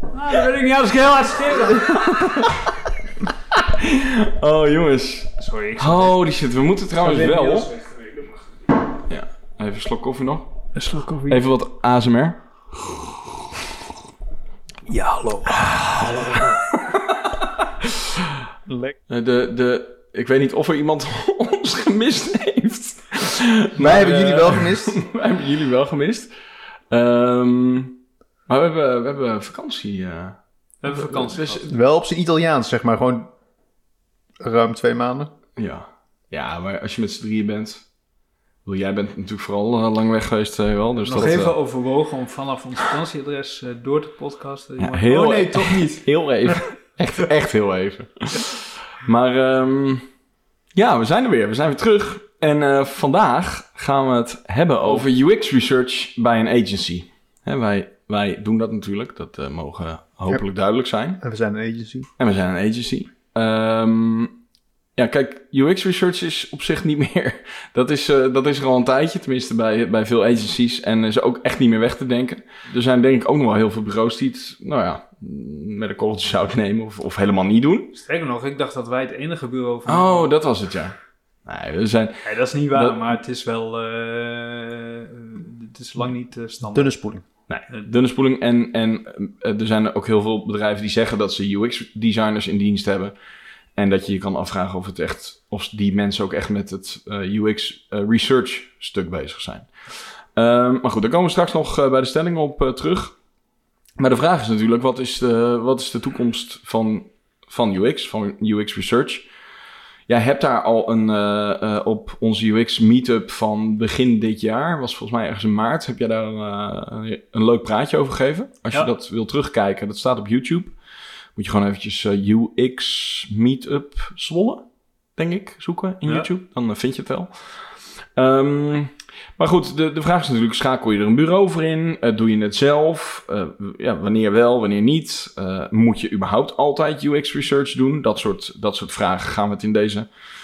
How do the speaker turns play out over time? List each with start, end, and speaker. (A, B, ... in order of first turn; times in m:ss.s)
0:00.1-0:02.3 A
0:02.1-0:02.6 B
0:03.5-0:07.7 B
0:05.4-0:06.2 A
0:07.0-0:08.6 A
0:09.1-0:10.5 B
0:10.8-0:11.4 A
0:11.3-0:12.4 B
0:14.9-0:16.6 A
0:15.7-0:17.9 B
0:18.7-0:19.0 C
0:19.1-0:26.3 B
0:23.8-0:25.0 C
0:26.9-0:31.7 B
0:30.8-0:31.8 A
0:31.7-0:33.3 C
0:34.4-0:35.3 C
0:35.6-0:37.9 B
0:38.6-0:41.6 B
0:41.0-0:46.0 A
0:44.8-0:50.1 B
0:50.8-1:01.2 B
1:01.2-1:02.1 C
1:02.2-1:04.4 B
1:05.0-1:17.9 B
1:17.9-1:20.3 A
1:19.9-1:23.0 B
1:22.2-1:27.0 A
1:26.7-1:27.2 C
1:27.5-1:33.2 B
1:33.8-1:39.7 B
1:40.3-1:43.2 B
1:44.0-1:49.3 B
1:50.1-2:00.8 B
2:01.4-2:20.1 B